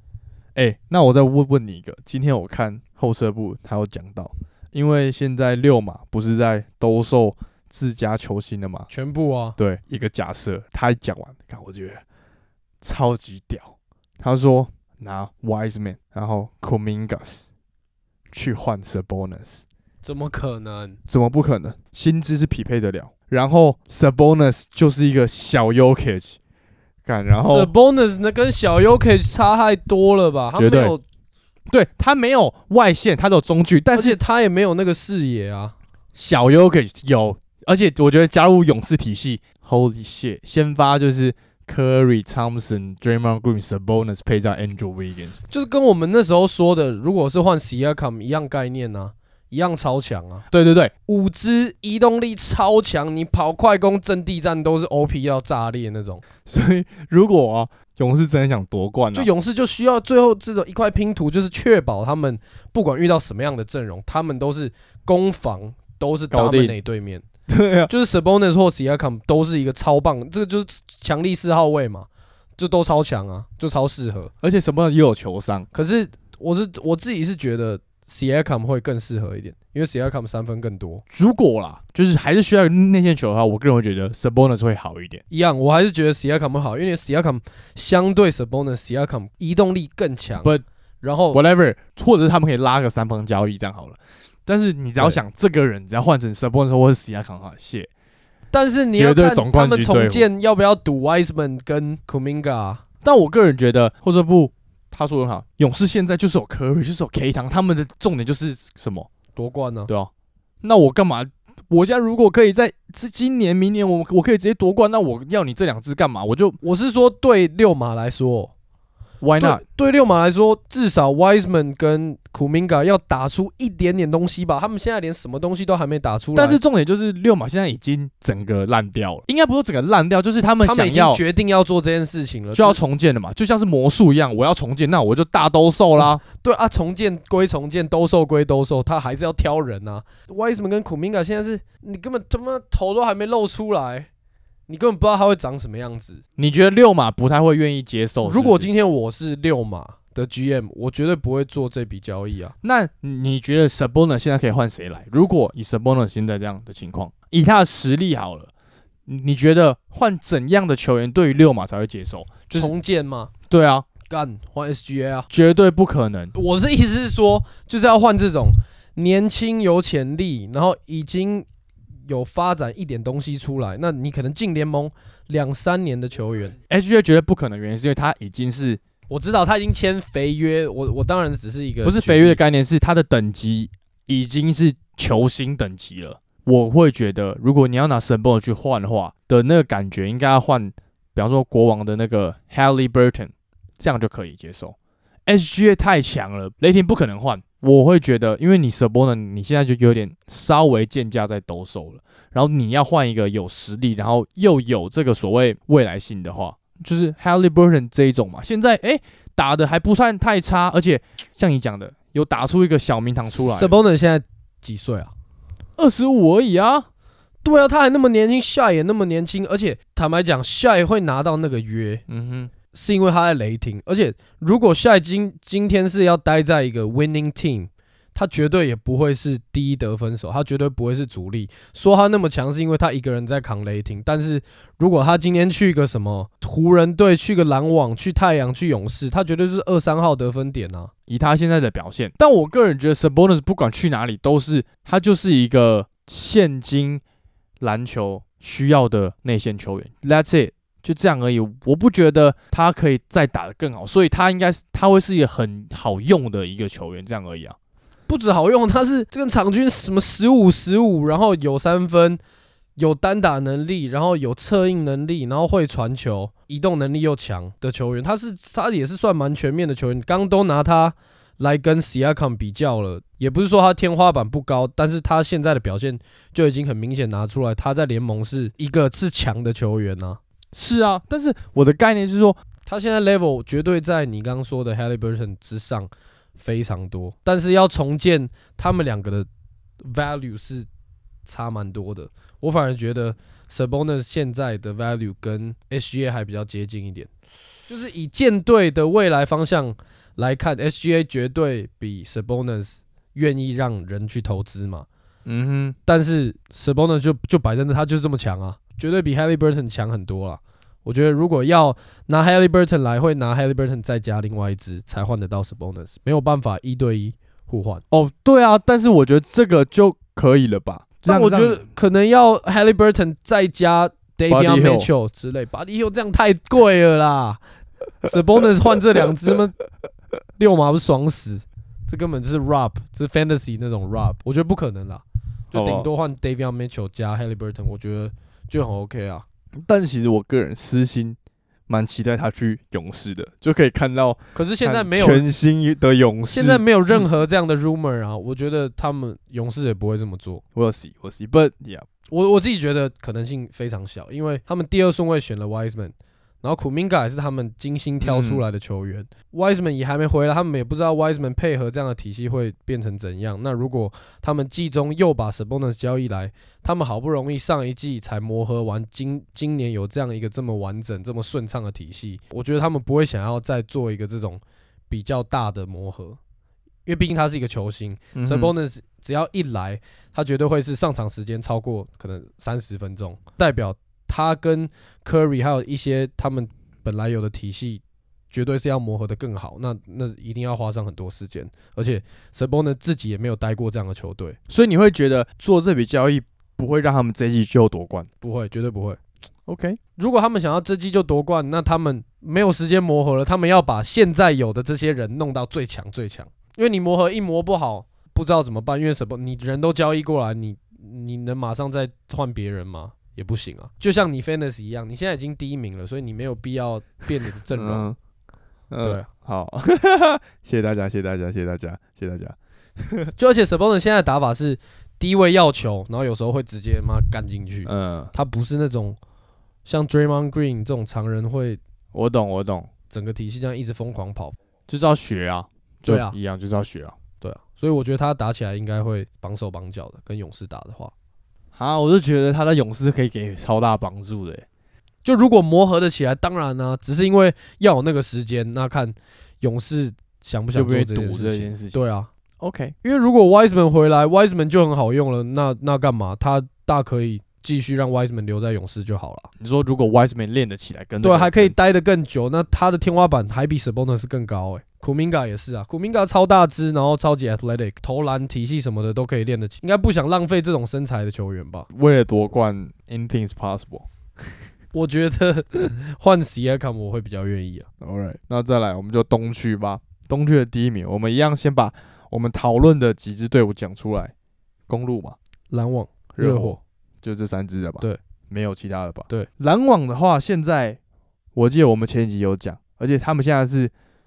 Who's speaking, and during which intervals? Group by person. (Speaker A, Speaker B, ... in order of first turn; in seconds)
Speaker A: 0.5-8.9, 9.6-12.0, 12.8-17.5, 18.3-19.6, 21.1-26.4, 27.0-27.7, 30.5-30.9, 31.7-34.2, 36.1-45.4, 50.5-50.9, 56.4-59.3, 66.3-66.8, 67.5-67.9, 74.4-75.7, 81.1-85.2, 91.3-97.9, 98.9-100.3, 103.0-109.1, 110.6-116.6, 119.2-119.6, 126.3-131.2, 132.5-136.2, 146.4-148.7, 152.6-158.5, 159.1-162.7, 163.5-163.9, 165.3-166.3, 176.7-178.8, 181.8-194.8, 195.3-213.8, 215.8-216.9, 222.1-222.5, 241.1-247.0, 247.6-257.6, 280.5-282.4, 305.2-305.8, 317.9-321.6, 324.3-324.9, 335.5-335.9, 339.6-341.2, 341.7-347.1, 350.5-351.9, 358.0-358.4, 378.1-378.5, 394.5-398.1, 399.5-399.8, 417.5-417.9, 418.7-423.1, 427.6-428.1, 431.9-432.7, 434.7-436.9, 441.5-444.4, 450.5-451.8, 452.4-452.8, 459.4-461.5, 471.7-473.9, 477.8-484.1, 484.7-485.1, 486.1-490.8, 491.3-493.7
Speaker B: 8.9-9.6, 20.0-21.0, 27.4-31.0, 33.9-35.7, 45.5-50.5, 51.1-56.2, 59.1-67.2, 67.9-74.3, 75.7-81.0, 85.3-91.4, 98.5-102.8, 109.3-109.9, 116.6-118.5, 119.4-126.6, 130.6-132.8, 136.0-144.1, 144.7-146.2, 148.2-152.5, 162.5-163.3, 164.0-165.3, 166.3-171.5, 172.1-176.6, 179.1-182.4, 213.3-215.1, 217.4-222.0, 222.7-240.9, 258.1-262.2, 262.8-280.2, 282.6-289.3, 289.8-290.7, 291.2-297.1, 297.7-304.9, 305.9-317.8, 321.1-327.4, 328.0-329.6, 330.4-339.2, 344.3-345.2, 346.3-350.4, 352.1-376.2, 376.9-394.4, 398.2-399.0, 400.0-417.9, 418.8-419.1, 423.2-429.0, 429.6-431.6, 432.9-434.4, 435.8-436.2, 437.2-440.9, 445.0-452.1, 452.8-459.3, 461.0-471.7, 474.7-477.7, 485.5-486.6